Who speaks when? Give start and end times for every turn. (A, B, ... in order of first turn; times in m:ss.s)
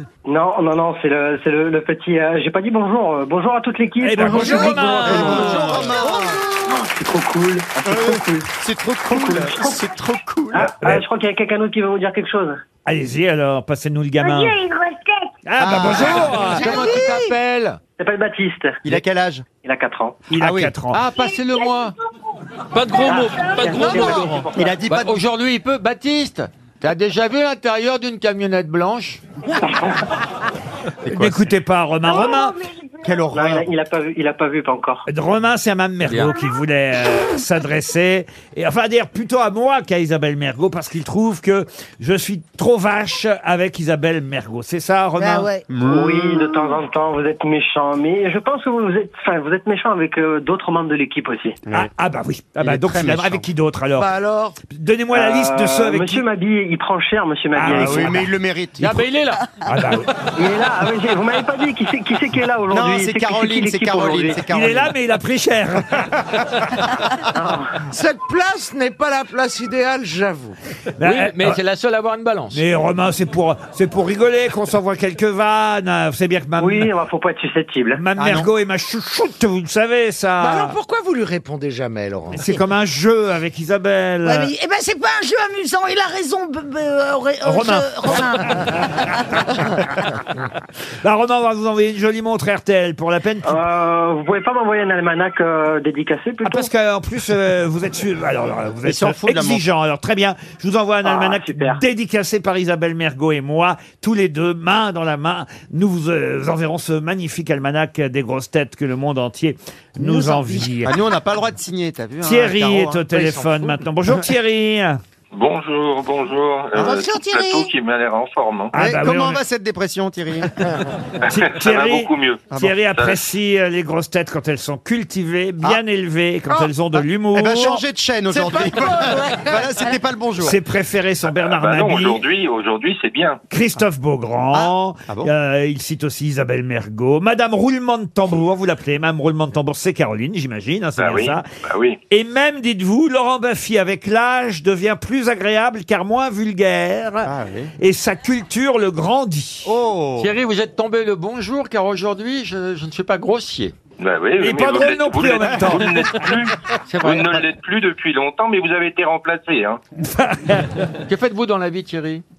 0:00.2-0:05.6 A
0:04.0-0:06.0 B
0:04.3-0:06.8 C
0:05.0-0:06.4 D
0:06.1-0:08.5 A
0:07.8-0:10.7 D
0:09.1-0:09.9 A
0:10.5-0:12.6 A
0:10.8-0:11.0 B
0:12.8-0:14.6 B
0:15.4-0:16.7 B
0:15.6-0:16.5 D
0:15.9-0:17.8 E
0:18.0-0:18.8 A
0:18.8-0:19.4 D
0:19.6-0:20.2 A
0:20.3-0:21.0 B
0:20.3-0:20.7 D
0:20.9-0:21.9 E
0:22.7-0:29.2 E
0:23.0-0:24.6 A
0:24.5-0:25.2 D
0:29.7-0:29.9 A
0:31.0-0:31.5 D
0:31.1-0:32.6 B
0:33.0-0:33.7 D
0:33.3-0:35.0 A
0:35.1-0:45.5 B
0:36.0-0:36.3 E
0:45.2-0:45.7 F
0:45.7-0:46.1 D
0:45.8-0:51.6 A
0:51.7-0:56.2 B
0:52.6-0:53.4 D
0:54.0-0:54.6 C
0:55.1-0:58.2 A
0:57.5-0:58.2 B
0:57.7-0:58.9 D
0:58.8-1:00.0 E
0:59.6-1:00.1 B
1:00.4-1:04.4 A
1:02.7-1:04.9 D
1:04.5-1:06.6 B
1:07.3-1:07.7 A
1:07.9-1:10.6 C
1:11.0-1:11.6 B
1:11.0-1:12.6 E
1:12.5-1:16.9 B
1:16.6-1:18.0 A
1:17.9-1:20.8 B
1:18.2-1:18.5 D
1:20.4-1:22.4 C
1:22.3-1:24.5 B
1:24.2-1:28.5 F
1:27.4-1:29.1 B
1:31.0-1:33.6 B
1:33.4-1:36.7 A
1:36.4-1:50.9 B
1:38.8-1:39.6 D
1:41.0-1:41.8 A
1:50.1-1:50.5 C
1:50.8-1:53.2 D
1:52.2-1:55.0 B
1:53.1-1:53.9 C
1:55.3-1:58.7 G
1:56.7-1:57.0 D
1:56.9-1:57.7 F
1:58.7-1:59.4 B
1:58.7-2:00.6 D
2:01.2-2:07.8 B
2:01.3-2:03.2 G
2:06.5-2:07.0 C
2:07.3-2:10.6 D
2:08.3-2:09.9 C
2:10.4-2:12.2 B
2:11.3-2:13.4 G
2:13.5-2:21.5 B
2:14.5-2:15.3 D
2:21.0-2:22.0 G
2:22.1-2:29.7 B
2:27.2-2:27.7 D
2:29.6-2:30.3 D
2:30.2-2:33.7 E
2:34.0-2:39.8 G
2:34.4-2:36.4 B
2:36.9-2:37.5 E
2:40.0-2:40.9 B
2:41.1-2:42.2 E